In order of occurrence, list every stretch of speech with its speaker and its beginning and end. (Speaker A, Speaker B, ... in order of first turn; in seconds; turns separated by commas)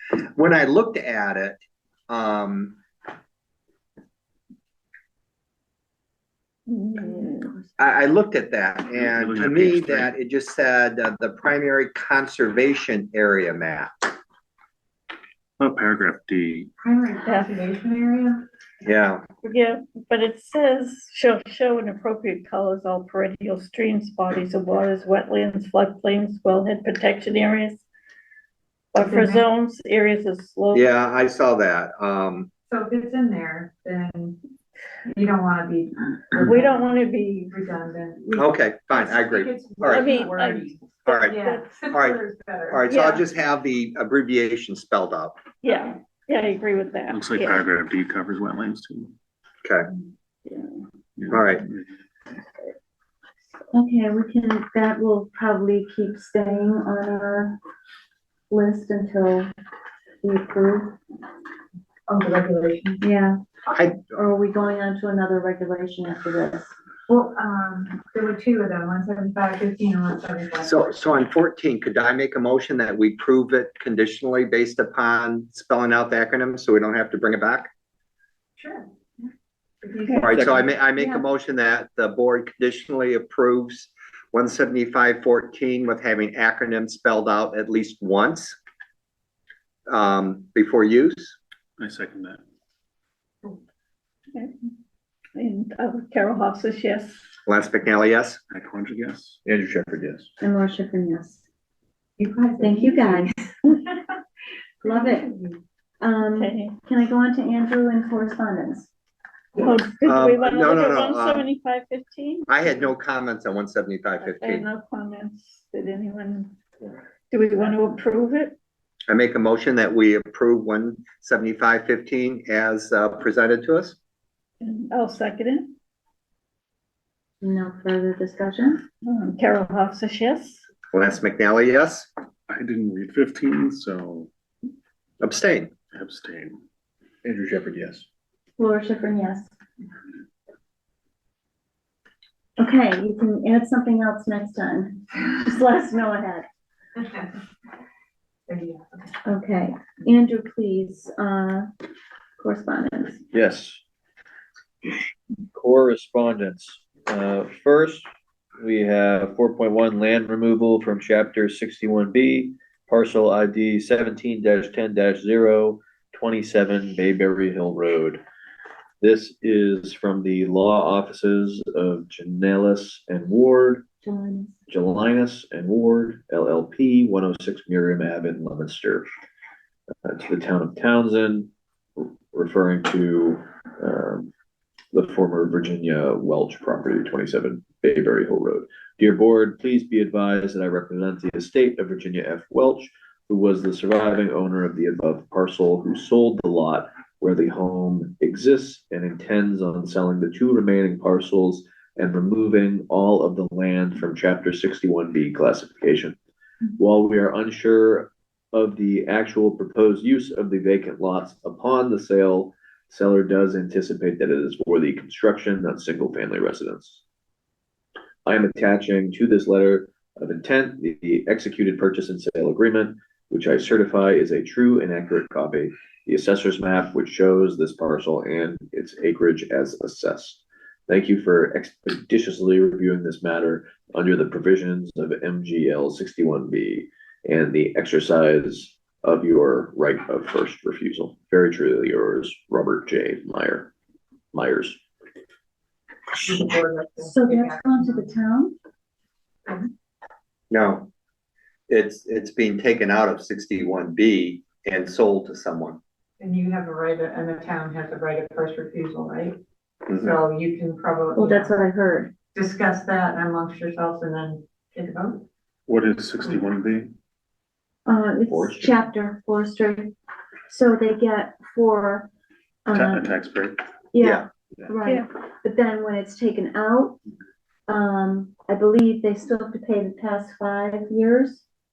Speaker A: 0.4-2.8, Speaker B: 6.7-7.6, Speaker C: 7.0-7.8, Speaker A: 7.8-14.1, Speaker D: 8.9-10.1, Speaker D: 15.6-16.7, Speaker E: 16.8-18.5, Speaker B: 17.2-17.6, Speaker A: 18.8-19.2, Speaker B: 19.4-27.8, Speaker B: 28.9-30.9, Speaker E: 29.0-29.4, Speaker A: 30.7-32.5, Speaker E: 32.7-34.4, Speaker E: 35.1-36.9, Speaker B: 36.4-37.5, Speaker E: 37.5-43.0, Speaker A: 38.4-40.1, Speaker B: 39.8-41.7, Speaker A: 41.1-41.4, Speaker A: 41.9-45.4, Speaker B: 42.9-43.2, Speaker B: 45.6-47.6, Speaker D: 47.1-49.1, Speaker D: 51.2-51.9, Speaker A: 51.3-51.7, Speaker C: 53.7-57.6, Speaker C: 58.5-59.5, Speaker C: 60.2-61.0, Speaker E: 62.1-63.0, Speaker C: 63.0-63.4, Speaker A: 63.7-64.0, Speaker C: 64.0-66.7, Speaker E: 67.1-70.8, Speaker A: 70.6-77.7, Speaker E: 78.6-79.3, Speaker E: 79.8-80.7, Speaker A: 80.2-88.6, Speaker C: 81.0-81.2, Speaker A: 89.9-91.4, Speaker D: 91.8-92.4, Speaker B: 95.3-97.2, Speaker A: 97.5-98.4, Speaker D: 98.5-99.4, Speaker F: 99.5-100.3, Speaker C: 100.4-101.4, Speaker E: 102.2-104.0, Speaker C: 102.6-103.4, Speaker E: 104.8-105.6, Speaker C: 104.8-105.3, Speaker C: 106.0-108.9, Speaker B: 106.2-106.7, Speaker B: 109.6-112.5, Speaker A: 110.0-111.5, Speaker A: 112.5-114.7, Speaker B: 114.2-116.5, Speaker B: 117.3-118.6, Speaker A: 119.1-124.0, Speaker B: 124.6-125.7, Speaker C: 127.4-128.8, Speaker B: 129.0-130.6, Speaker A: 130.9-132.1, Speaker D: 132.5-134.3, Speaker A: 135.2-135.7, Speaker D: 135.9-136.6, Speaker F: 137.2-138.1, Speaker C: 138.6-139.5, Speaker C: 142.6-146.5, Speaker E: 147.0-147.3, Speaker E: 148.5-149.1, Speaker C: 149.2-151.7, Speaker C: 152.4-153.2, Speaker F: 153.3-153.8, Speaker F: 155.5-158.1, Speaker F: 158.6-168.2, Speaker F: 169.0-173.8, Speaker C: 174.0-174.6, Speaker F: 174.7-179.1, Speaker F: 180.1-184.3, Speaker F: 184.9-206.2, Speaker F: 206.8-217.0, Speaker F: 218.2-243.7, Speaker F: 244.3-244.8, Speaker E: 246.1-248.2, Speaker C: 247.0-248.6, Speaker A: 250.5-250.9, Speaker A: 251.7-255.8, Speaker E: 256.2-259.4, Speaker A: 259.9-260.1, Speaker E: 259.9-261.5, Speaker C: 261.1-262.1, Speaker E: 262.3-265.2, Speaker D: 265.7-266.9, Speaker C: 267.9-269.9, Speaker F: 268.3-268.8, Speaker C: 270.5-272.1, Speaker C: 272.7-273.0, Speaker D: 272.7-273.6, Speaker C: 273.9-277.0, Speaker A: 274.0-274.3, Speaker C: 277.7-281.4